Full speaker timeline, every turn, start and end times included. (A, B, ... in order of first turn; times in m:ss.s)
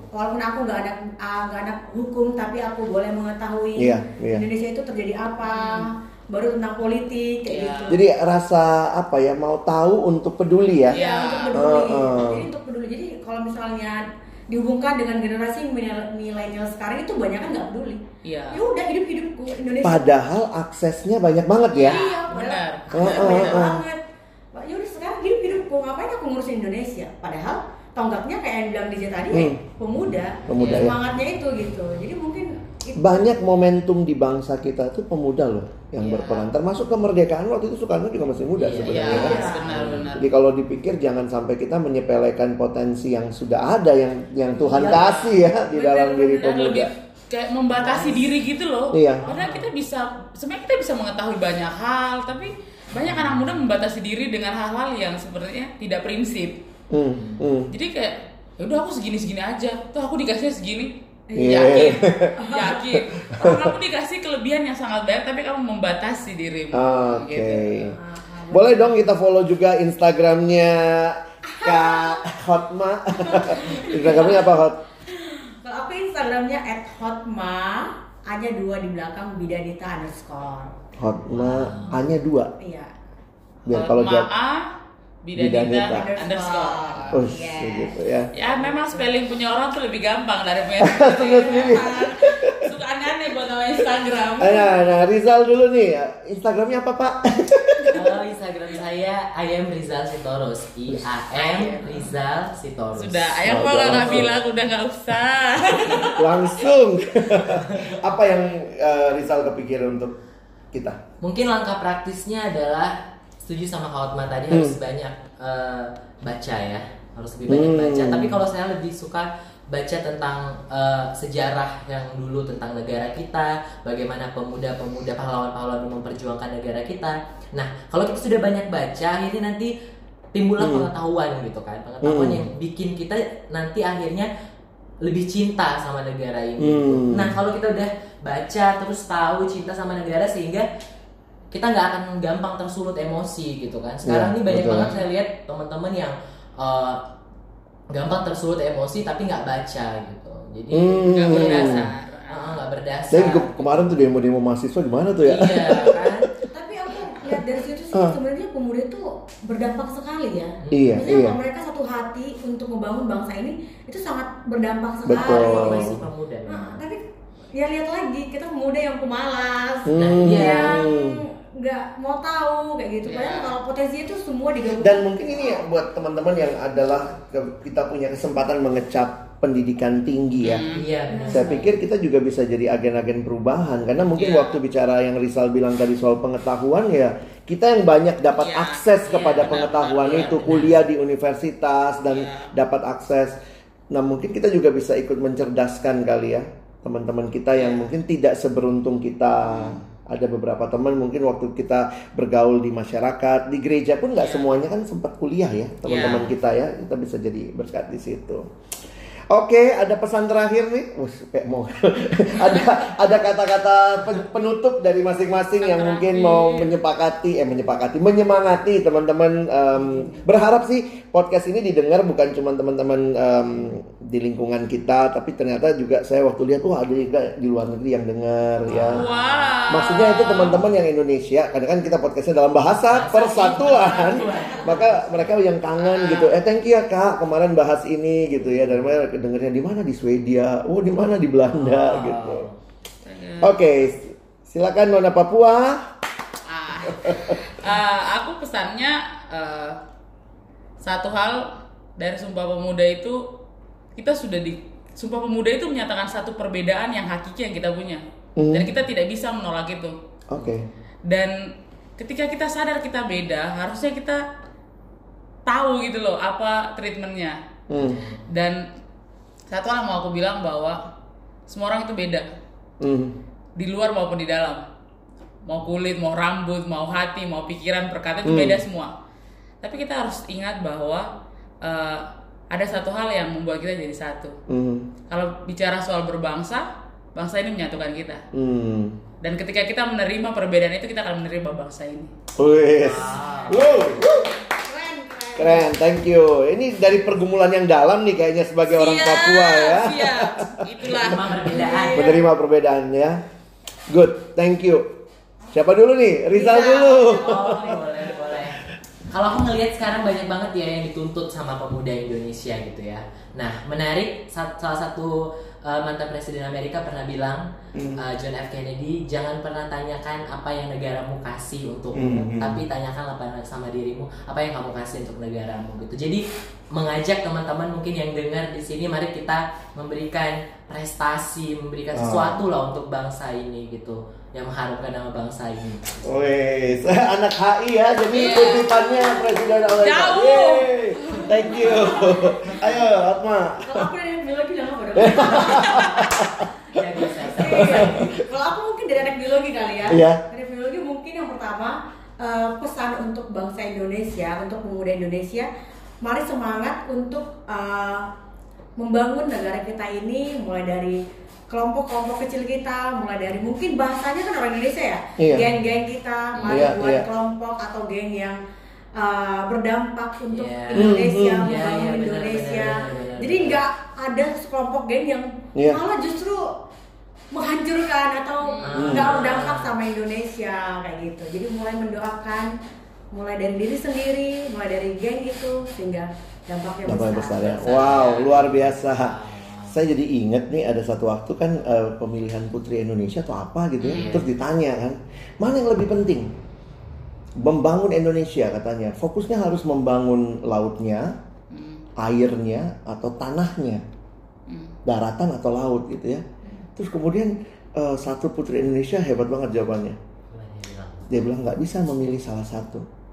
0:00.1-0:08.0 A
0:03.8-0:04.4 B
0:05.5-0:05.9 C
0:07.4-0:08.0 C
0:07.9-0:11.0 B
0:10.9-0:11.6 C
0:10.9-0:18.0 A
0:11.5-0:12.5 B
0:18.2-0:18.6 C
0:18.5-0:20.0 A
0:19.8-0:22.0 B
0:21.7-0:24.0 A
0:21.8-0:23.6 C
0:22.9-0:23.8 B
0:24.5-0:33.4 A
0:29.3-0:29.6 B
0:30.4-0:31.0 B
0:30.5-0:30.9 D
0:33.0-0:46.9 B
0:36.0-0:36.5 C
0:38.6-0:40.1 D
0:38.8-0:40.3 C
0:39.1-0:39.9 A
0:44.6-0:56.6 C
0:44.7-0:45.0 D
0:47.8-0:48.3 D
0:48.9-0:49.2 B
0:49.2-0:49.7 D
0:52.9-0:53.6 D
0:56.9-0:57.7 B
0:57.1-0:57.6 D
0:57.7-1:07.9 C
1:01.3-1:02.8 A
1:01.4-1:02.4 B
1:03.3-1:03.7 B
1:06.7-1:08.0 B
1:07.9-1:09.0 A
1:08.5-1:14.8 B
1:11.5-1:12.2 A
1:13.2-1:20.8 A
1:21.0-1:22.5 B
1:21.3-1:22.0 D
1:22.6-1:22.9 A
1:23.6-1:24.3 B
1:23.7-1:24.6 C
1:25.2-1:27.2 C
1:25.4-1:26.1 B
1:25.8-1:28.0 A
1:27.1-1:28.3 B
1:28.3-1:34.8 C
1:30.8-1:32.7 B
1:34.4-1:38.0 B
1:37.9-1:44.3 D
1:41.3-1:42.1 C
1:43.0-1:46.6 C
1:43.4-1:44.4 B
1:46.1-1:50.2 B
1:47.6-1:47.9 D
1:50.7-1:51.0 B
1:51.2-2:09.7 D
1:54.5-1:54.8 B
1:57.4-1:58.4 B
2:10.3-2:14.3 D
2:10.6-2:10.9 B
2:12.0-2:12.4 B
2:15.0-2:20.6 D
2:16.6-2:17.4 B
2:21.5-2:27.0 D
2:24.0-2:24.9 B
2:27.9-2:34.1 D
2:30.7-2:31.9 B
2:31.1-2:32.6 C
2:33.1-2:36.2 B
2:35.2-2:36.3 D
2:36.5-2:46.0 A
2:40.6-2:41.0 D
2:40.7-2:41.4 B
2:45.0-2:46.0 B
2:45.1-2:46.8 D
2:46.5-2:47.0 A
2:47.6-2:55.7 A
2:49.9-2:51.2 B
2:49.9-2:50.9 D
2:53.0-2:53.5 C
2:54.8-3:00.6 B
3:00.4-3:00.8 C
3:00.7-3:01.7 D
3:01.1-3:01.6 A
3:01.3-3:13.4 B
3:04.2-3:04.6 C
3:08.3-3:10.6 C
3:09.1-3:10.8 D
3:12.1-3:12.5 C
3:13.9-3:28.4 B
3:17.5-3:17.9 C
3:19.5-3:19.8 C
3:24.2-3:24.6 C
3:25.8-3:26.3 C
3:29.3-3:49.1 B
3:35.6-3:36.8 C
3:39.7-3:40.2 A
3:48.6-3:49.7 D
3:48.8-3:50.6 C
3:49.7-4:02.5 B
3:52.9-3:55.5 D
3:55.8-3:56.4 C
4:01.5-4:02.6 D
4:03.0-4:03.6 C
4:03.4-4:05.8 B
4:06.5-4:09.8 C
4:06.9-4:07.4 B
4:10.8-4:13.2 C
4:14.0-4:19.9 C
4:18.4-4:18.7 B
4:20.3-4:20.6 B
4:20.3-4:20.6 D
4:21.1-4:21.3 C
4:22.0-4:24.2 C
4:25.4-4:27.4 C
4:27.7-4:28.0 B
4:27.7-4:28.2 D
4:28.3-4:28.6 C
4:29.5-4:30.8 C
4:31.5-4:32.2 C
4:32.8-4:33.2 B
4:33.6-4:34.6 C
4:35.4-4:38.9 C
4:38.2-4:38.6 B
4:39.6-4:41.1 C
4:41.6-4:44.4 C
4:44.5-4:44.9 B
4:45.1-4:48.2 C
4:48.3-4:49.0 B
4:49.2-4:52.1 C
4:52.4-4:54.4 B
4:52.7-4:54.0 D
4:54.5-4:55.7 A
4:55.4-5:00.5 B
4:58.6-5:01.3 C
5:01.0-5:02.2 D
5:01.4-5:02.2 A
5:01.9-5:03.2 B
5:03.9-5:04.9 B
5:05.5-5:07.8 B
5:06.3-5:17.4 D
5:17.7-5:18.0 B
5:18.0-5:26.2 D
5:21.9-5:22.6 B
5:26.7-5:36.1 D
5:31.9-5:32.4 B
5:36.0-5:43.9 B
5:38.1-5:39.2 C
5:39.8-5:42.3 C
5:41.5-5:42.7 A
5:43.6-5:45.9 A
5:45.0-5:46.5 B
5:46.7-5:48.2 D
5:47.3-5:55.5 A
5:47.4-5:48.1 B
5:49.9-5:50.2 B
5:56.0-5:58.0 A
5:58.8-6:08.4 A
6:05.2-6:05.5 B
6:06.3-6:06.8 D
6:06.4-6:07.0 B
6:09.0-6:16.4 A
6:10.3-6:13.6 D
6:10.7-6:11.5 B
6:17.3-6:22.5 A
6:18.4-6:19.0 C
6:18.6-6:19.7 D
6:18.8-6:19.1 B
6:23.1-6:27.8 A
6:26.8-6:29.1 B
6:27.6-6:29.8 D
6:29.7-6:36.3 B
6:33.8-6:34.2 C
6:33.9-6:34.2 D
6:37.4-6:41.1 B
6:41.5-6:41.8 C
6:42.0-6:43.8 B
6:44.5-6:44.8 C
6:44.8-6:46.2 B
6:46.8-6:50.0 B
6:50.3-6:51.2 D
6:51.1-6:52.8 B